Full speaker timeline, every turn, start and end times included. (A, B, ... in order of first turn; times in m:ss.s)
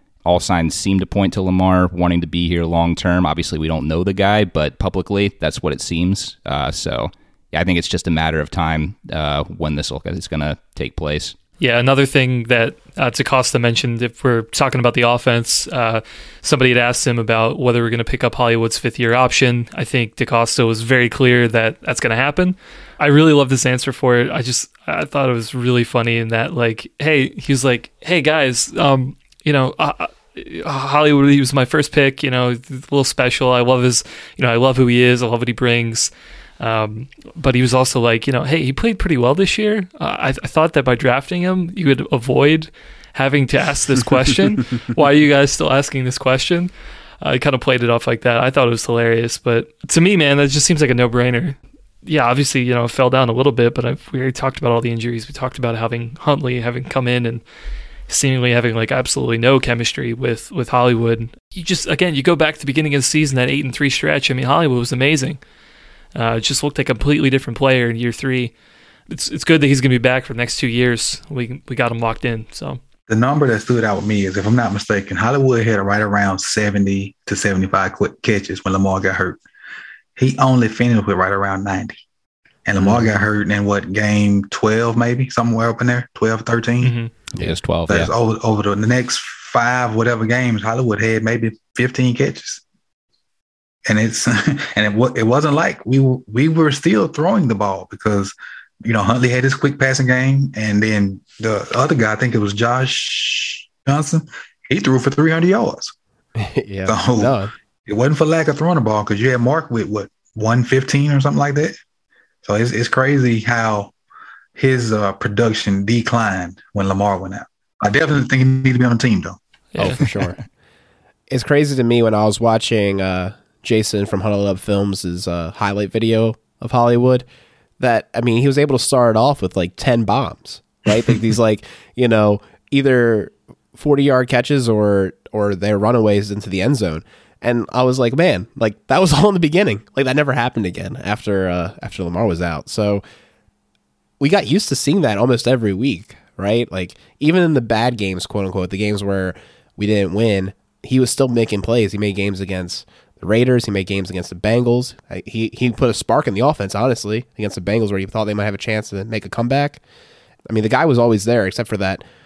0:00.2-0:11.4 A
0:11.6-0:46.7 B
0:47.2-0:57.4 B
0:58.1-1:05.4 B
1:06.2-1:08.5 B
1:09.1-1:12.8 B
1:13.1-1:19.4 C
1:20.2-1:22.0 C
1:22.7-1:27.0 C
1:22.8-1:23.1 D
1:26.8-1:27.1 B
1:27.3-1:28.1 A
1:27.9-1:32.6 C
1:33.9-1:45.9 C
1:46.4-1:47.5 D
1:46.9-1:47.4 C
1:47.9-1:51.8 C
1:52.4-1:53.9 C
1:54.6-1:59.4 C
1:59.7-2:00.0 B
1:59.8-2:00.4 D
2:01.3-2:07.3 D
2:07.8-2:23.0 D
2:24.2-2:39.8 D
2:40.5-2:42.0 D